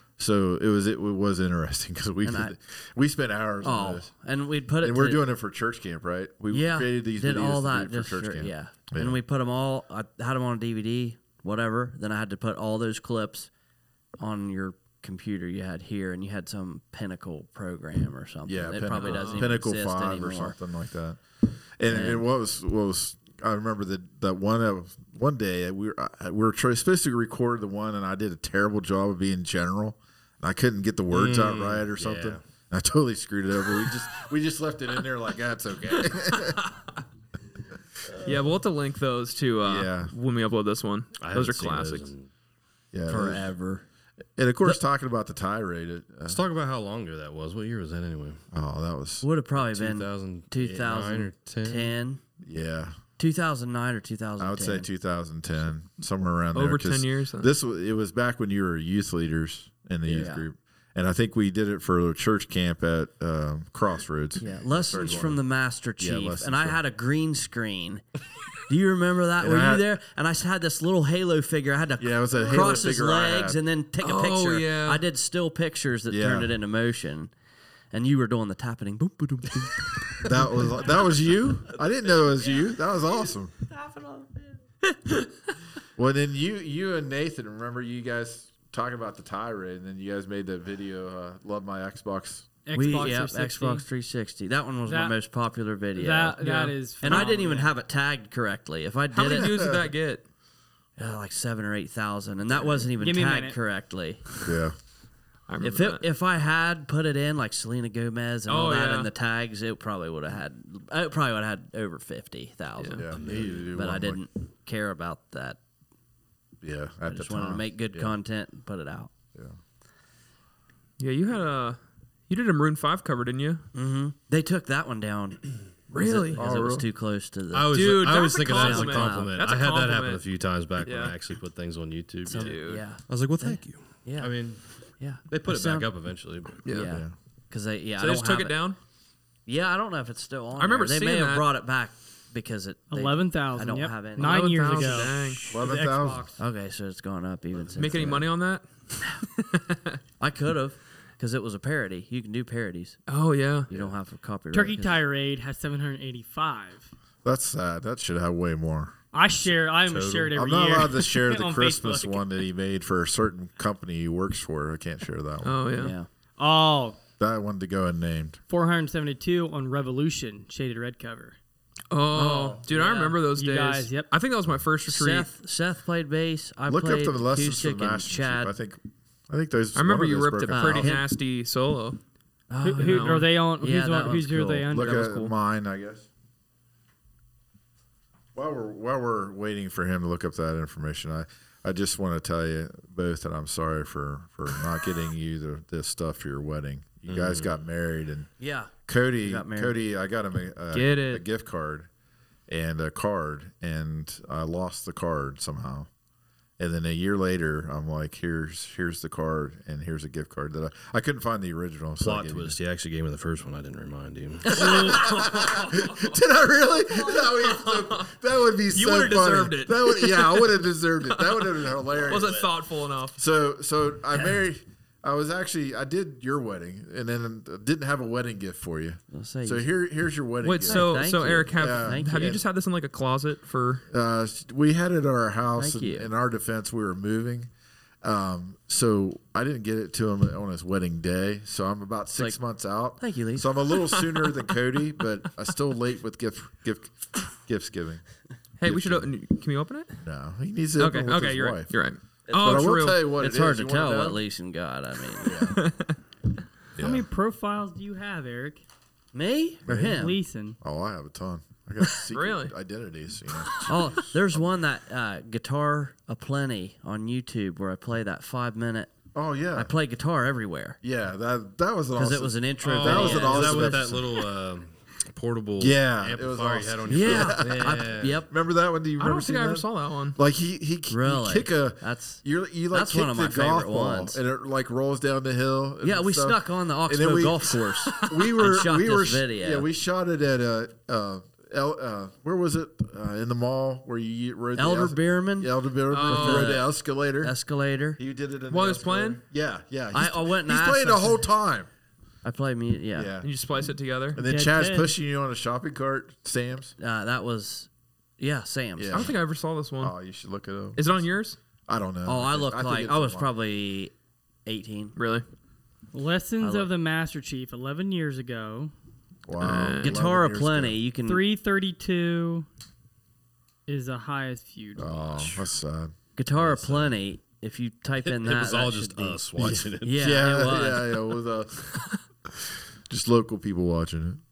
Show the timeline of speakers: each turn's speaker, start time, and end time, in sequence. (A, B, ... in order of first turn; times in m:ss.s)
0:00.2-0:04.1 A
0:02.2-0:02.5 B
0:03.6-0:05.2 B
0:04.8-0:09.2 A
0:06.5-0:13.5 B
0:14.2-0:20.6 B
0:18.4-0:21.2 A
0:18.9-0:19.5 C
0:21.8-0:36.7 A
0:21.9-0:22.2 B
0:31.1-0:32.4 D
0:38.2-0:42.1 C
0:39.6-0:40.1 A
0:41.2-0:42.3 D
0:42.9-0:43.5 A
0:43.1-0:43.8 B
0:44.4-0:46.4 A
0:46.2-0:48.4 D
0:48.5-0:49.2 A
0:49.2-0:52.2 B
0:49.6-0:51.9 D
0:52.4-0:53.0 A
0:53.2-0:54.8 B
0:54.4-1:05.4 A
0:56.5-0:57.5 C
1:00.1-1:00.4 B
1:04.4-1:08.0 B
1:05.0-1:05.3 D
1:06.0-1:06.8 A
1:08.7-1:17.3 B
1:09.4-1:09.8 A
1:12.0-1:13.6 A
1:12.5-1:12.8 C
1:14.0-1:15.0 C
1:16.1-1:16.5 A
1:17.9-1:20.4 B
1:20.2-1:23.5 A
1:23.7-1:24.5 B
1:24.9-1:25.3 C
1:26.0-1:32.5 A
1:32.6-1:33.8 E
1:32.7-1:36.4 B
1:34.8-1:35.2 E
1:35.9-1:37.7 E
1:36.4-1:37.4 C
1:37.0-1:39.7 B
1:39.1-1:40.2 C
1:39.3-1:39.8 A
1:41.0-1:44.4 B
1:43.0-1:43.6 E
1:44.4-1:44.7 A
1:45.5-1:46.0 C
1:45.6-1:53.1 B
1:48.5-1:49.1 C
1:53.0-1:54.2 A
1:53.1-1:53.7 D
1:53.6-1:55.6 B
1:56.6-1:58.2 A
1:57.1-1:59.1 B
2:01.0-2:01.8 C
2:02.3-2:03.6 C
2:03.7-2:09.3 B
2:05.9-2:06.4 C
2:06.4-2:06.9 A
2:07.5-2:14.6 D
2:07.7-2:10.2 C
2:10.8-2:11.2 C
2:12.2-2:14.4 B
2:12.3-2:12.8 C
2:15.0-2:15.9 B
2:15.3-2:16.6 D
2:16.6-2:16.9 C
2:16.6-2:18.6 B
2:16.8-2:17.1 A
2:18.0-2:18.8 C
2:19.4-2:25.5 B
2:20.6-2:21.5 C
2:22.9-2:26.4 E
2:24.2-2:25.4 C
2:25.5-2:26.3 A
2:26.4-2:28.3 B
2:27.8-2:30.0 C
2:30.2-2:33.0 B
2:33.1-2:33.7 C
2:33.7-2:35.0 B
2:34.5-2:36.9 E
2:37.2-2:38.9 A
2:39.1-2:42.3 E
2:39.8-2:40.3 D
2:40.3-2:45.6 A
2:45.4-2:45.9 C
2:45.7-2:46.1 B
2:46.4-2:47.0 E
2:47.2-2:48.4 A
2:48.5-2:51.4 E
2:51.9-2:55.3 C
2:52.1-2:53.2 B
2:53.3-2:54.1 E
2:54.9-2:58.5 B
2:56.7-3:01.0 A
2:59.7-3:02.0 C
3:00.5-3:01.0 B
3:02.5-3:04.8 B
3:02.6-3:05.3 E
3:02.8-3:03.2 C
3:04.7-3:06.1 A
3:08.3-3:18.3 A
3:17.1-3:17.5 D
3:18.4-3:19.7 B
3:18.9-3:21.9 A
3:20.7-3:21.2 C
3:22.5-3:25.9 A
3:26.6-3:32.6 A
3:32.0-3:35.1 D
3:34.5-3:35.5 B
3:34.8-3:42.5 A
3:35.0-3:36.0 C
3:37.2-3:38.1 C
3:38.7-3:43.2 C
3:43.2-3:52.4 A
3:49.1-3:49.6 B
3:50.4-3:53.8 C
3:50.6-3:52.4 B
3:53.9-3:57.5 A
3:55.6-3:56.1 B
3:58.0-4:08.0 A
4:03.0-4:03.5 B
4:08.6-4:10.0 C
4:08.6-4:09.1 A
4:10.0-4:11.7 A
4:10.8-4:13.1 C
4:12.3-4:15.4 B
4:12.3-4:14.2 A
4:15.2-4:15.6 A
4:15.5-4:15.9 C
4:16.8-4:17.0 A
4:16.8-4:18.6 E
4:19.1-4:20.2 B
4:19.7-4:24.4 A
4:19.8-4:20.6 E
4:22.1-4:22.5 C
4:23.6-4:28.9 B
4:29.1-4:29.7 A
4:29.5-4:30.8 B
4:30.8-4:34.2 A
4:31.9-4:33.9 B
4:32.6-4:33.2 C
4:32.8-4:38.2 D
4:35.6-4:57.3 A
4:36.9-4:38.3 B
4:39.0-4:40.2 C
4:40.9-4:44.2 B
4:45.8-4:49.6 B
4:54.6-4:56.7 B
4:55.9-4:56.6 C
4:57.2-4:58.0 B
4:58.0-5:01.7 A
4:58.5-4:59.2 C
4:59.9-5:01.2 B
5:02.2-5:03.1 B
5:02.9-5:03.3 A
5:03.2-5:04.2 C
5:04.1-5:06.7 A
5:04.2-5:04.9 E
5:06.8-5:09.1 B
5:08.8-5:09.1 A
5:08.9-5:09.9 C
5:09.8-5:10.9 A
5:10.7-5:11.4 C
5:11.7-5:13.3 A
5:12.0-5:13.9 B
5:14.4-5:15.0 B
5:15.0-5:15.2 C
5:15.9-5:18.7 E
5:16.4-5:16.7 B
5:19.2-5:20.8 A
5:19.4-5:20.0 C
5:19.8-5:21.2 B
5:21.0-5:22.5 E
5:23.7-5:25.4 E
5:24.8-5:26.9 A
5:26.2-5:31.0 B
5:28.0-5:30.1 D
5:29.4-5:31.6 A
5:32.4-5:34.2 A